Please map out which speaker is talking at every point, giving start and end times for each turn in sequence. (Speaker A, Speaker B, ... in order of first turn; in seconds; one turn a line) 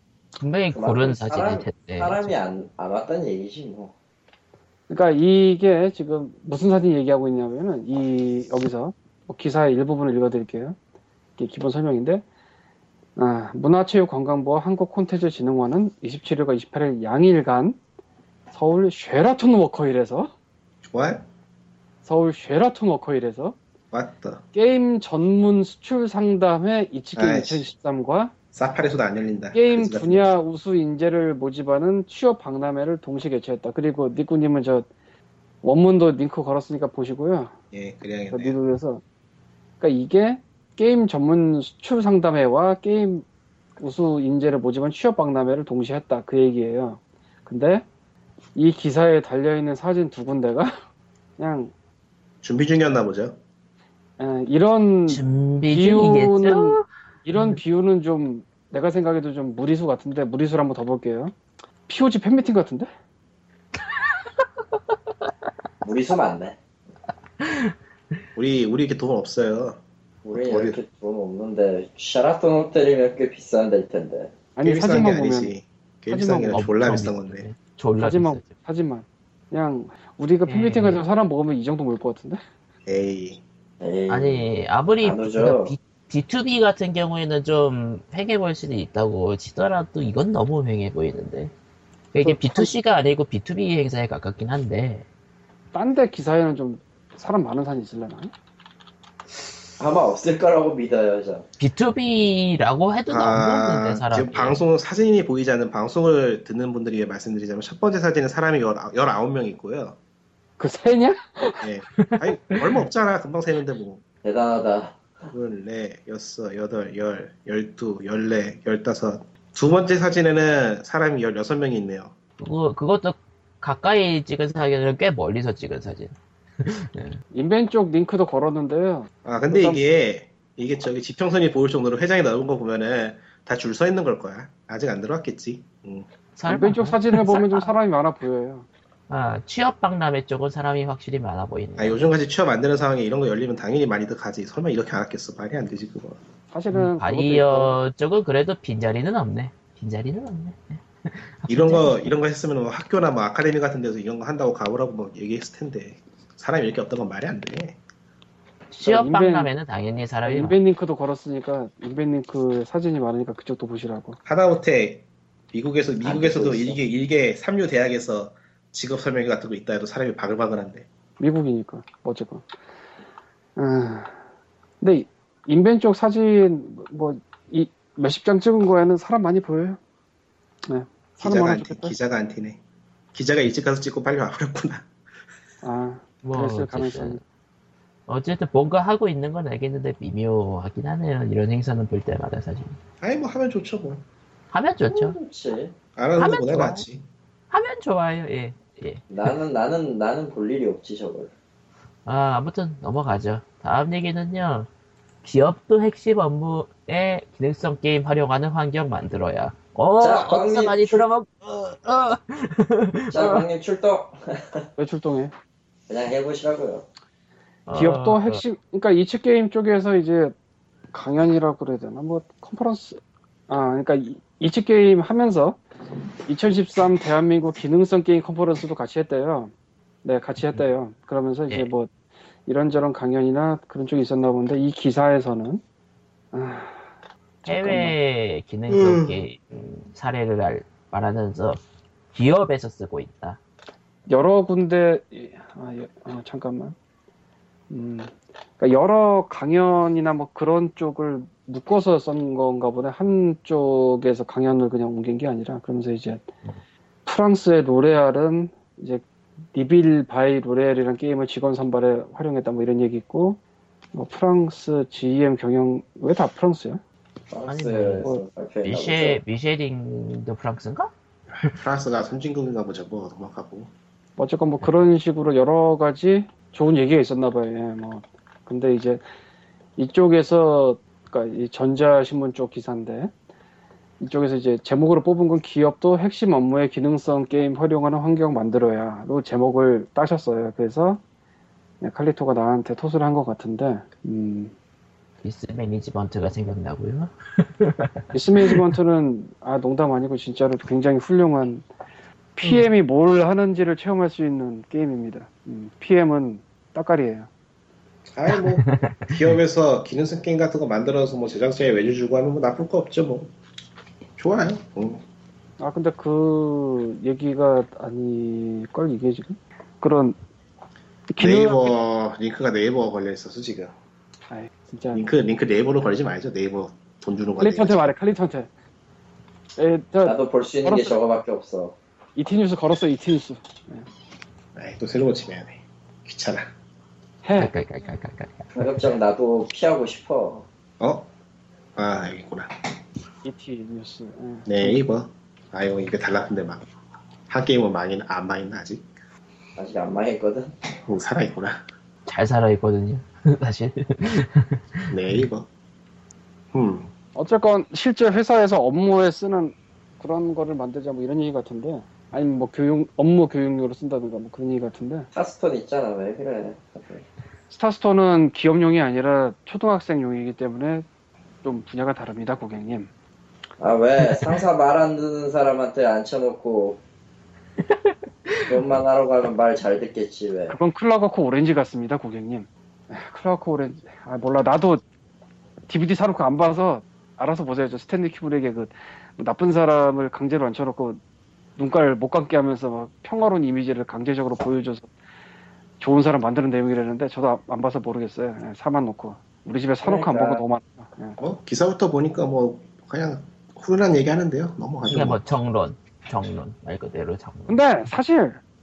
Speaker A: 0.4-2.3
Speaker B: 0.7-3.9
Speaker C: 4.9-10.8
Speaker C: 11.4-12.2
Speaker C: 13.2-17.8
Speaker C: 18.5-20.3
Speaker D: 20.8-21.2
Speaker C: 22.0-23.6
Speaker D: 23.9-24.4
Speaker C: 24.5-28.3
Speaker D: 27.1-27.7
Speaker D: 28.5-30.3
Speaker C: 29.5-34.9
Speaker C: 35.6-37.5
Speaker D: 37.7-38.5
Speaker C: 38.3-39.0
Speaker C: 39.8-43.2
Speaker C: 43.8-47.8
Speaker C: 48.5-50.7
Speaker C: 51.4-51.7
Speaker D: 52.4-53.4
Speaker C: 54.2-61.4
Speaker A: 55.1-57.6
Speaker C: 61.9-62.9
Speaker B: 65.8-66.6
Speaker A: 67.4-67.7
Speaker D: 68.3-69.8
Speaker B: 70.2-74.3
Speaker D: 70.3-70.8
Speaker C: 74.5-75.5
Speaker D: 74.6-77.4
Speaker C: 76.1-76.6
Speaker A: 76.5-78.5
Speaker C: 78.0-82.4
Speaker A: 80.5-81.0
Speaker D: 82.8-83.4
Speaker B: 83.8-84.5
Speaker A: 84.1-91.5
Speaker B: 85.0-85.7
Speaker A: 92.1-95.0
Speaker C: 92.2-92.7
Speaker C: 95.7-98.3
Speaker B: 99.8-101.5
Speaker A: 101.6-104.6
Speaker D: 103.1-110.0
Speaker C: 110.6-111.6
Speaker D: 111.6-114.0
Speaker A: 112.0-112.5
Speaker B: 114.2-115.2
Speaker D: 115.3-122.1
Speaker A: 122.4-127.2
Speaker C: 127.3-129.8
Speaker D: 129.2-136.1
Speaker A: 136.3-137.7
Speaker C: 136.5-138.7
Speaker A: 139.1-142.0
Speaker D: 141.8-146.2
Speaker C: 146.5-147.8
Speaker A: 146.7-152.1
Speaker D: 151.5-157.8
Speaker A: 158.7-160.6
Speaker C: 158.8-159.5
Speaker C: 160.2-164.2
Speaker D: 164.2-170.8
Speaker B: 166.0-166.8
Speaker C: 171.2-172.5
Speaker C: 173.6-174.2
Speaker C: 174.8-179.8
Speaker C: 180.7-181.9
Speaker D: 181.2-182.6
Speaker D: 183.1-184.9
Speaker C: 185.6-187.2
Speaker A: 186.2-187.2
Speaker A: 188.1-192.8
Speaker D: 193.0-194.0
Speaker A: 194.5-195.2
Speaker B: 194.9-195.7
Speaker D: 195.9-197.0
Speaker A: 196.2-196.8
Speaker A: 197.5-199.3
Speaker B: 199.1-201.3
Speaker A: 202.1-204.7
Speaker A: 205.2-213.4
Speaker B: 210.0-211.1
Speaker B: 213.1-214.7
Speaker C: 214.8-215.3
Speaker B: 215.9-216.9
Speaker A: 217.7-218.4
Speaker C: 217.7-220.3
Speaker C: 220.9-225.6
Speaker C: 226.3-229.5
Speaker C: 230.0-231.9
Speaker C: 232.4-235.6
Speaker C: 236.3-236.8
Speaker C: 237.4-237.9
Speaker A: 237.4-241.6
Speaker D: 238.7-239.2
Speaker A: 242.1-243.4
Speaker C: 244.1-246.8
Speaker C: 247.7-256.3
Speaker C: 257.1-263.4
Speaker C: 263.9-266.8
Speaker B: 267.3-269.2
Speaker A: 267.5-268.1
Speaker A: 268.6-270.9
Speaker D: 271.4-273.7
Speaker C: 274.2-279.0
Speaker C: 279.8-283.1
Speaker C: 284.0-291.0
Speaker C: 291.8-294.5
Speaker A: 295.2-298.6
Speaker C: 298.1-301.6
Speaker C: 302.4-307.3
Speaker A: 302.4-302.7
Speaker D: 308.1-313.3
Speaker A: 308.3-309.2
Speaker D: 314.2-315.0
Speaker C: 315.6-320.1
Speaker C: 321.1-321.7
Speaker D: 321.2-323.7
Speaker C: 324.3-325.0
Speaker D: 324.9-327.9
Speaker C: 327.4-328.5
Speaker C: 329.6-331.0
Speaker B: 330.0-331.8
Speaker C: 332.1-333.9
Speaker D: 334.5-336.5
Speaker C: 337.2-337.5
Speaker A: 337.4-338.7
Speaker B: 338.5-340.5
Speaker D: 340.8-341.1
Speaker D: 341.8-342.5
Speaker C: 343.2-344.8
Speaker D: 344.4-346.6
Speaker D: 347.3-348.9
Speaker B: 349.6-350.5
Speaker D: 350.8-351.6
Speaker A: 352.1-355.2
Speaker D: 354.9-355.5
Speaker D: 356.5-356.9
Speaker C: 357.1-365.1
Speaker B: 365.1-367.1
Speaker C: 367.5-370.9
Speaker C: 371.4-372.9
Speaker B: 373.6-376.8
Speaker A: 377.6-378.6
Speaker B: 378.5-380.6
Speaker C: 380.5-384.8
Speaker C: 385.7-391.0
Speaker C: 391.6-394.9
Speaker C: 395.8-401.2
Speaker B: 399.8-400.4
Speaker D: 401.2-405.2
Speaker A: 404.9-407.6
Speaker C: 407.5-408.4